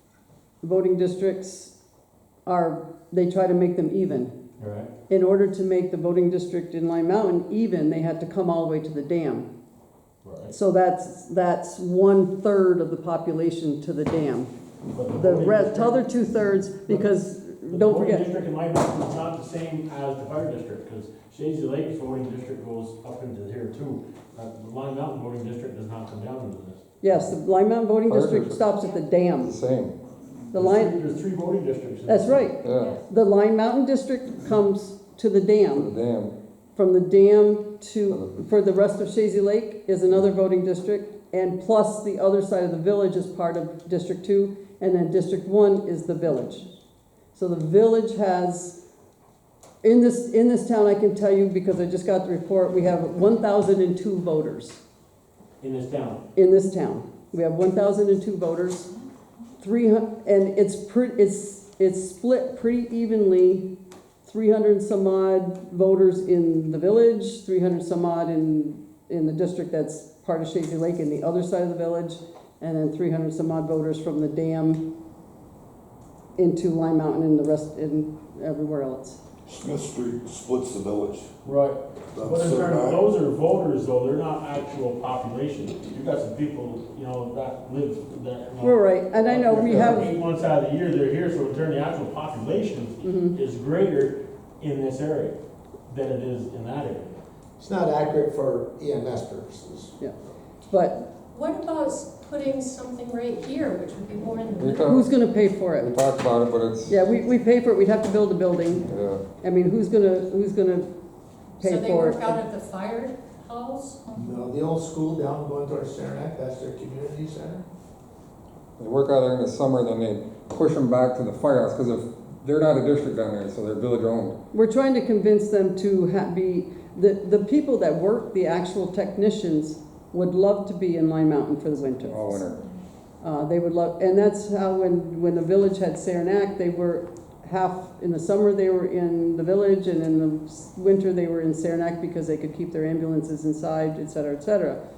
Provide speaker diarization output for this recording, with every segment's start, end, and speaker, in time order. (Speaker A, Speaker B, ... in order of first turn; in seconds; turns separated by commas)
Speaker A: 0.6-1.7, Speaker A: 2.5-4.3, Speaker B: 4.6-4.9, Speaker A: 5.1-9.5, Speaker B: 10.2-10.5, Speaker A: 10.5-14.5, Speaker B: 14.9-16.1, Speaker A: 15.1-18.3, Speaker B: 17.7-26.8, Speaker A: 27.0-29.5, Speaker C: 28.1-28.7, Speaker C: 29.4-30.0, Speaker A: 30.5-31.0, Speaker B: 30.5-32.5, Speaker A: 32.1-35.9, Speaker C: 32.6-33.0, Speaker D: 32.8-33.0, Speaker C: 35.7-36.3, Speaker A: 36.8-46.7, Speaker A: 47.4-48.8, Speaker A: 49.8-54.8, Speaker B: 55.6-56.2, Speaker A: 56.4-58.9, Speaker A: 59.6-63.7, Speaker A: 64.2-74.8, Speaker A: 76.4-79.2, Speaker E: 79.5-81.3, Speaker B: 81.4-95.4, Speaker E: 82.2-83.0, Speaker A: 88.6-90.1, Speaker A: 93.0-93.3, Speaker B: 95.9-97.2, Speaker F: 97.6-100.0, Speaker A: 100.7-101.1, Speaker D: 101.3-104.9, Speaker C: 104.6-105.1, Speaker A: 104.8-106.0, Speaker C: 105.8-107.0, Speaker A: 106.9-108.9, Speaker C: 108.9-109.2, Speaker A: 109.4-110.9, Speaker A: 111.6-112.4, Speaker D: 111.6-114.0, Speaker F: 114.1-117.7, Speaker C: 118.8-124.4, Speaker A: 124.5-132.4, Speaker C: 132.0-132.6, Speaker A: 133.2-144.8